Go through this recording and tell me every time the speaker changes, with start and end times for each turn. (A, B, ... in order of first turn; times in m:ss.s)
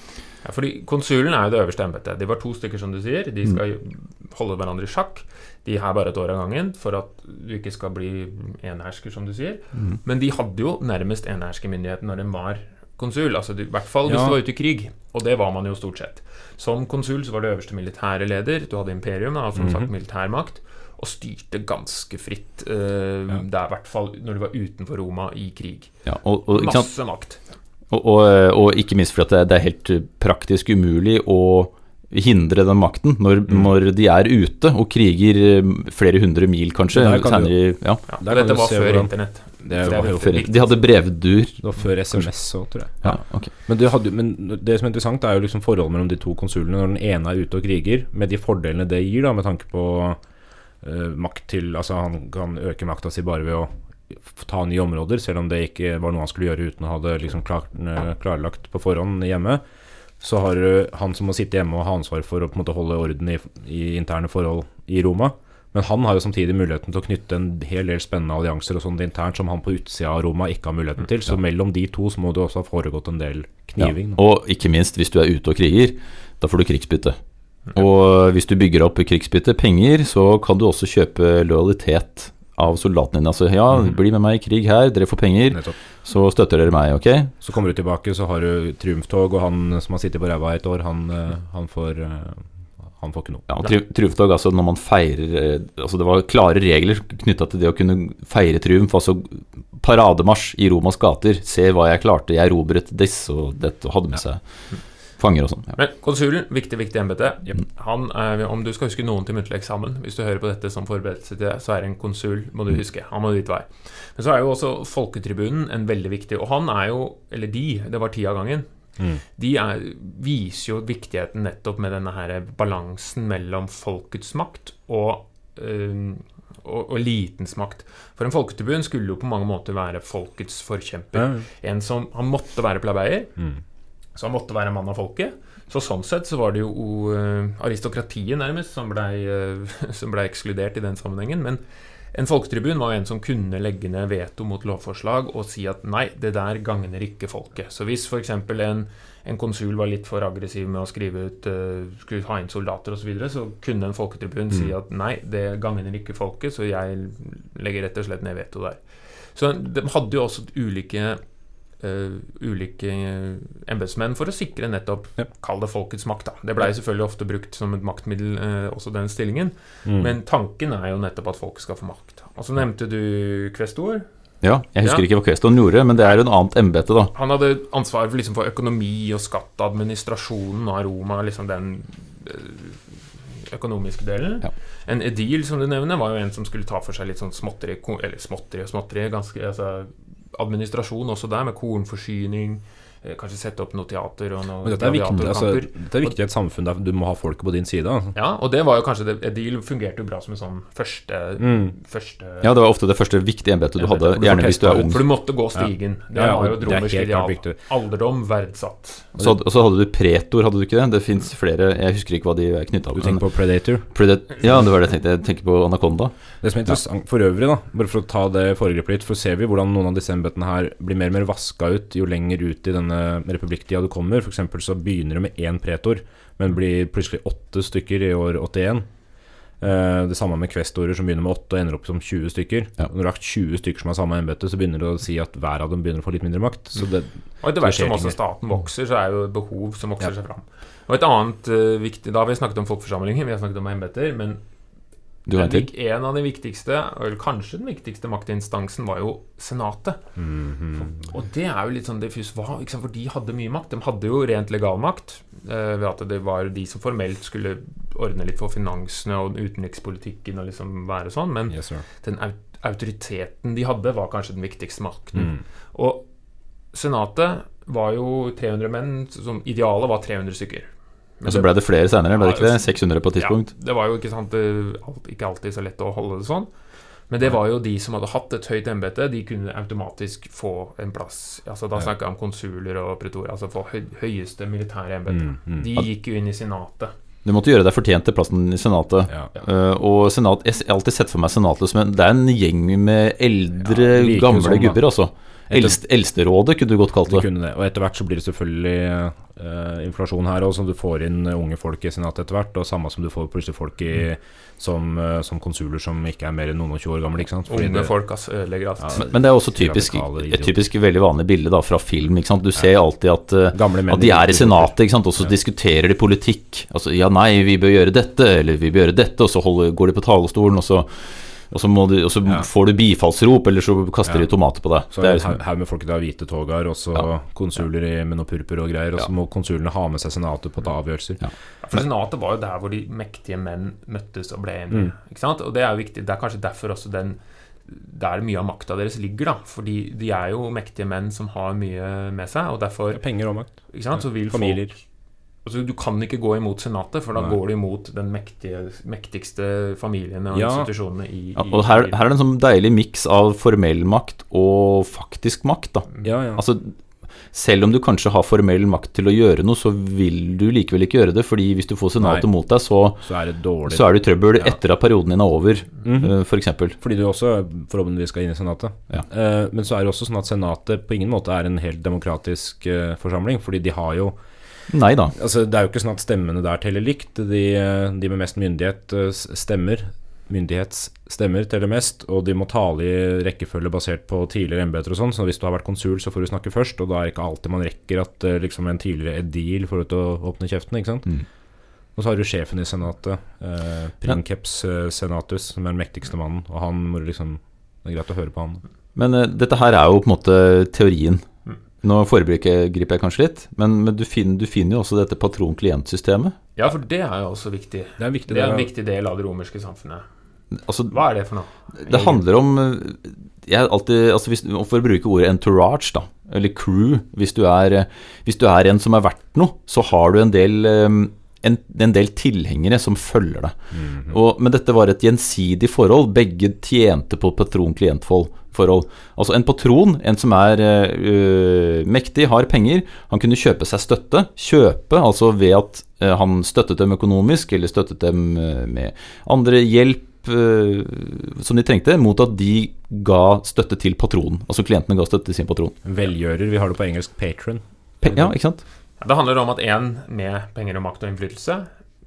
0:00.4-0:27.4 A
0:14.1-0:14.4 B
0:19.6-0:19.9 B
0:26.0-0:26.9 C
0:27.9-0:38.0 C
0:36.9-0:40.4 B
0:38.1-0:40.8 A
0:40.2-0:42.2 C
0:41.6-0:50.2 B
0:43.0-0:43.5 C
0:50.8-0:59.6 B
1:00.2-1:14.2 B
1:13.8-1:17.2 C
1:17.7-1:27.3 C
1:27.4-1:33.5 B
1:33.5-1:45.7 C
1:45.7-1:58.7 A
1:59.4-2:13.4 A
2:11.2-2:11.4 B
2:14.2-2:21.6 A
2:22.1-2:41.2 A
2:41.8-2:54.0 A
2:49.8-2:50.1 B
2:54.4-2:57.1 C
2:57.1-3:16.1 A
3:14.6-3:18.1 B
3:18.1-3:22.5 A
3:21.4-3:21.7 B
3:22.4-3:25.0 C
3:23.8-3:29.1 A
3:24.2-3:25.0 B
3:25.5-3:27.6 B
3:29.2-3:33.2 C
3:33.0-3:33.9 B
3:33.8-3:36.1 C
3:36.4-3:48.9 B
3:49.6-3:58.2 B
3:57.4-4:04.4 A
4:05.2-4:05.7 C
4:05.3-4:10.0 A
4:10.2-4:10.9 B
4:10.7-4:26.0 A
4:21.5-4:21.8 B
4:25.1-4:25.4 B
4:26.7-4:30.7 A
4:31.2-4:31.5 A
4:31.2-4:33.5 C
4:32.1-4:36.5 A
4:37.1-4:46.9 A
4:45.1-4:45.7 B
4:47.2-4:57.2 C
4:53.6-4:54.8 B
4:55.5-4:55.8 B
4:57.1-5:07.9 B
5:07.5-5:09.1 A
5:08.8-5:10.5 B
5:09.0-5:25.4 C
5:13.5-5:15.3 B
5:24.9-5:31.2 B
5:31.6-5:43.0 A
5:42.9-5:44.7 B
5:43.7-5:44.8 A
5:45.4-5:52.0 A
5:50.3-5:50.7 B
5:51.4-5:56.7 C
5:56.0-5:56.4 B
5:57.3-6:03.0 C
6:02.0-6:02.3 B
6:03.0-6:04.6 B
6:03.7-6:06.8 C
6:05.8-6:06.1 B
6:06.8-6:14.2 B
6:14.7-6:15.1 C
6:15.1-6:31.1 B
6:31.9-6:38.6 B
6:39.0-6:41.2 C
6:41.8-6:46.3 C
6:46.6-6:50.0 A
6:48.0-6:48.7 B
6:50.5-6:51.0 C
6:50.9-6:52.2 A
6:51.8-7:03.6 C
7:03.7-7:04.2 B
7:04.1-7:25.8 C
7:25.8-7:28.3 B
7:28.0-7:28.6 C
7:29.0-7:31.7 A